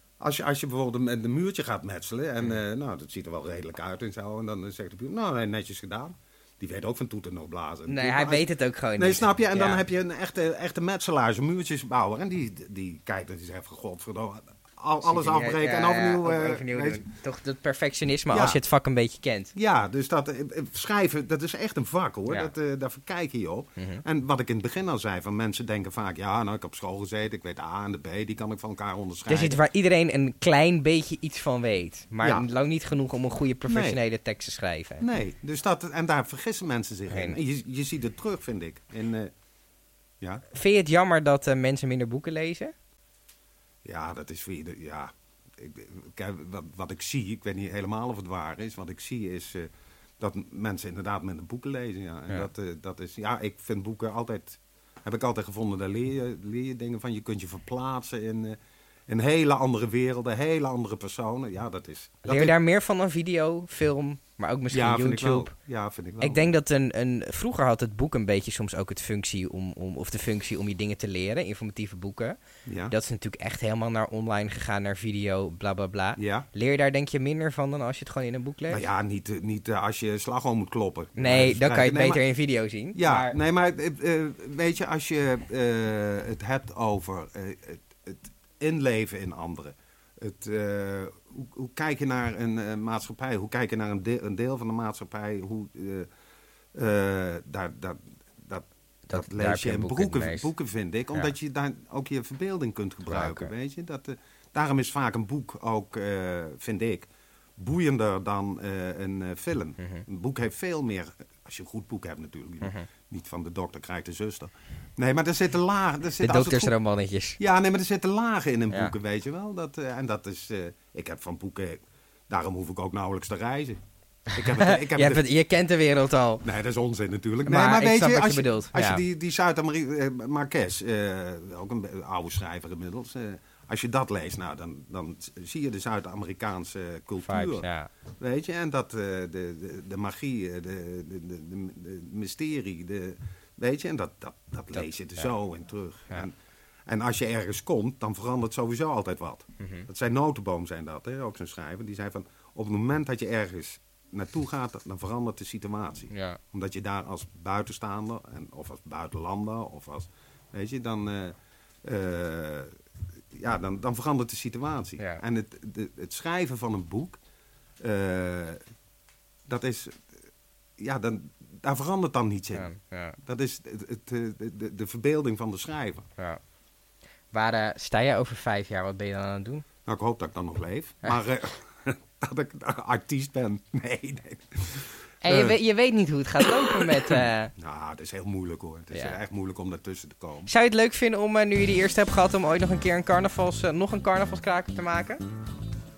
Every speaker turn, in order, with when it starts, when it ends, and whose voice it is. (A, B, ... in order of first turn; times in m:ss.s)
0:00.2-0:08.5 A
0:07.9-0:09.8 B
0:09.0-0:17.0 A
0:15.0-0:19.5 B
0:18.3-0:18.6 A
0:19.6-0:29.6 A
0:23.8-0:24.0 B
0:29.3-0:35.0 B
0:33.7-0:34.0 A
0:35.0-0:39.3 A
0:37.1-0:37.4 B
0:40.5-0:42.7 B
0:43.8-1:02.6 A
1:02.3-1:05.5 B
1:04.7-1:06.6 A
1:06.2-1:12.4 B
1:12.7-1:12.9 A
1:12.9-1:18.8 B
1:16.2-1:16.5 A
1:18.7-1:22.2 A
1:21.2-1:23.4 B
1:23.0-1:36.1 A
1:36.7-1:56.7 A
1:39.1-1:40.5 B
1:43.1-1:43.5 B
1:49.8-1:50.0 B
1:52.6-1:52.9 B
1:56.2-1:57.4 B
1:57.4-2:03.8 A
2:04.3-2:06.4 B
2:04.3-2:05.2 A
2:06.4-2:17.7 A
2:07.5-2:09.0 B
2:17.2-2:17.9 B
2:18.2-2:26.3 A
2:24.8-2:25.3 B
2:26.9-2:42.8 A
2:29.6-2:29.9 B
2:36.1-2:36.4 B
2:43.3-2:47.2 A
2:47.8-2:48.6 A
2:49.5-2:50.1 A
2:50.8-2:56.1 A
2:52.6-2:53.2 B
2:57.3-2:59.6 B
2:59.8-3:05.6 A
3:05.2-3:07.5 B
3:06.4-3:10.5 A
3:10.5-3:15.2 B